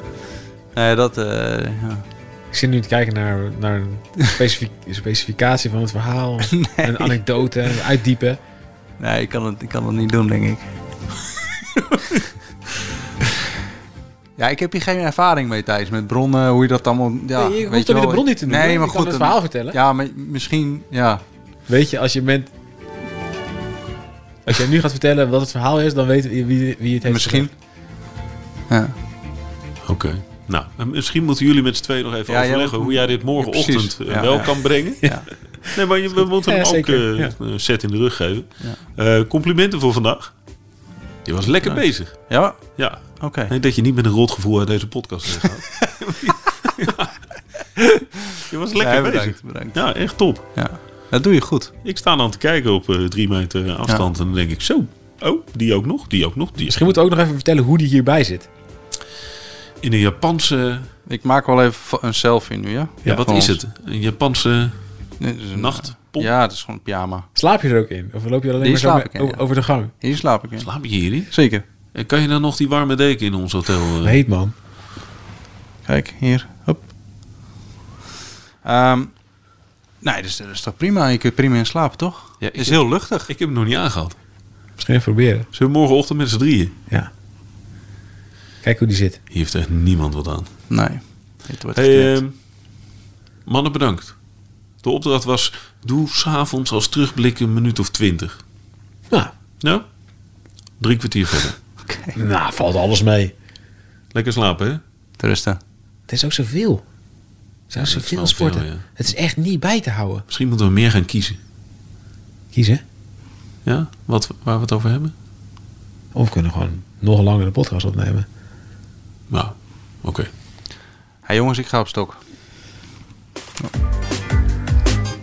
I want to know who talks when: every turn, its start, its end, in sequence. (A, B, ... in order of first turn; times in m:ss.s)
0:00.7-0:02.0 A
0:02.5-0:08.4 B
0:06.4-0:07.2 A
0:09.0-0:10.7 A
0:14.4-0:21.2 A
0:17.3-0:19.8 B
0:21.7-0:22.5 B
0:24.4-0:27.5 B
0:27.0-0:27.5 A
0:28.7-0:28.9 A
0:29.8-0:35.1 C
0:32.3-0:35.3 A
0:35.1-0:35.7 B
0:35.7-0:40.3 C
0:36.4-0:37.3 B
0:41.2-0:47.1 C
0:41.6-0:43.5 A
0:48.3-0:50.4 C
0:48.7-0:49.9 A
0:50.5-0:51.7 A
0:51.8-0:56.9 C
0:56.6-0:58.5 B
0:59.8-1:00.9 C
1:01.1-1:03.6 A
1:03.0-1:03.3 B
1:03.0-1:04.8 C
1:05.2-1:07.3 A
1:05.6-1:06.3 C
1:07.3-1:09.9 B
1:08.6-1:09.4 A
1:10.0-1:10.7 A
1:10.6-1:11.3 C
1:11.3-1:11.6 A
1:11.9-1:14.2 C
1:14.0-1:14.5 B
1:15.9-1:16.8 A
1:18.6-1:19.1 A
1:20.0-1:23.3 A
1:22.4-1:24.2 C
1:24.8-1:25.5 B
1:25.5-1:26.7 C
1:28.6-1:29.2 B
1:29.3-1:30.5 C
1:30.7-1:32.2 A
1:31.7-1:32.3 C
1:33.4-1:34.1 C
1:34.8-1:38.4 C
1:40.8-1:41.6 C
1:41.9-1:42.1 A
1:42.1-1:43.3 B
1:44.1-1:44.8 C
1:45.2-1:45.6 A
1:46.1-1:46.8 B
1:47.7-1:50.2 B
1:47.8-1:48.8 C
1:50.3-1:51.4 C
1:52.5-1:52.8 B
1:53.6-1:55.1 C
1:56.1-1:58.3 B
1:59.3-2:00.3 C
2:01.3-2:02.2 A